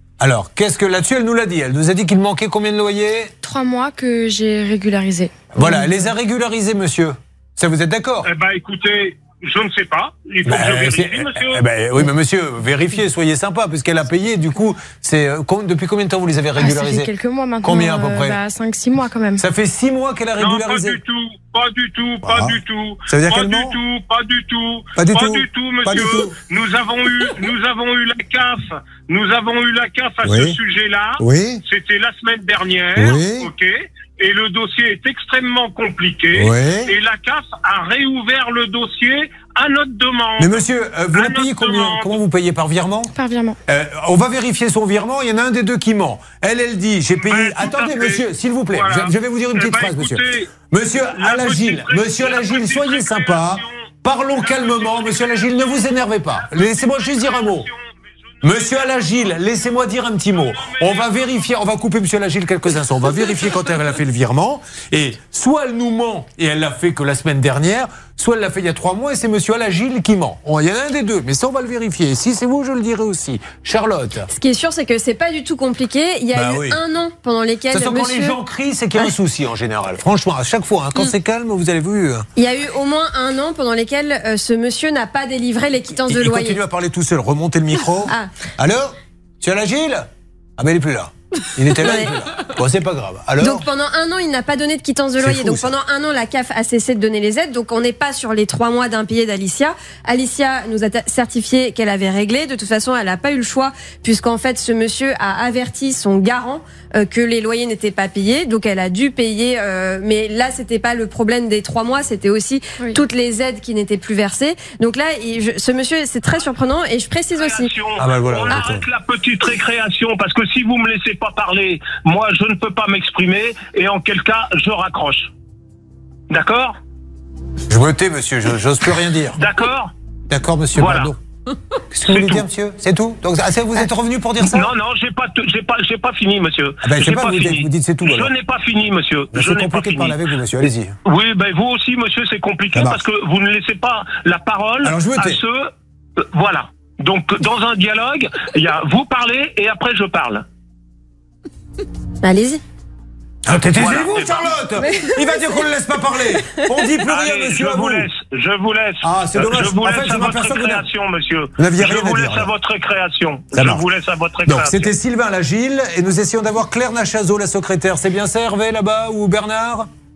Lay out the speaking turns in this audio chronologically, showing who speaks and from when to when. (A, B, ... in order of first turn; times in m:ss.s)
0:00.2-0:03.3 A
0:03.4-0:06.1 B
0:05.5-0:08.3 A
0:08.2-0:11.6 C
0:10.4-0:17.1 A
0:16.6-0:19.4 B
0:17.6-0:18.4 A
0:19.4-0:21.0 A
0:20.4-0:42.2 C
0:22.2-0:23.8 A
0:25.0-0:26.4 A
0:30.2-0:30.6 A
0:31.2-0:31.6 A
0:33.0-0:33.5 A
0:36.3-0:36.9 A
0:40.4-0:43.1 A
0:43.1-0:43.6 B
0:43.7-0:57.7 A
0:47.2-0:50.5 C
0:51.1-0:53.9 C
0:54.4-0:59.4 C
0:58.4-1:14.3 A
1:00.3-1:01.5 C
1:14.3-1:18.4 D
1:16.3-1:16.8 A
1:17.7-1:22.3 A
1:22.4-1:26.6 D
1:26.1-1:33.6 A
1:31.7-1:32.1 D
1:33.4-1:57.7 D
1:35.2-1:35.7 A
1:57.4-2:05.3 C
1:58.0-1:58.8 A
2:06.3-2:06.8 C
2:07.7-2:09.4 A
2:09.4-2:09.9 C
2:10.3-2:11.2 A
2:10.7-2:11.1 C
2:11.9-2:14.7 A
2:12.0-2:12.5 C
2:14.4-2:20.2 C
2:16.8-2:18.3 A
2:19.3-2:21.0 A
2:21.0-2:25.7 C
2:22.7-2:23.0 A
2:24.8-2:25.4 A
2:26.3-2:30.4 C
2:32.2-2:32.6 D
2:33.4-2:38.1 A
2:33.5-2:34.5 C
2:37.0-2:44.9 C
2:39.0-2:40.9 A
2:41.6-2:42.5 A
2:43.5-2:43.8 A
2:44.4-2:49.9 A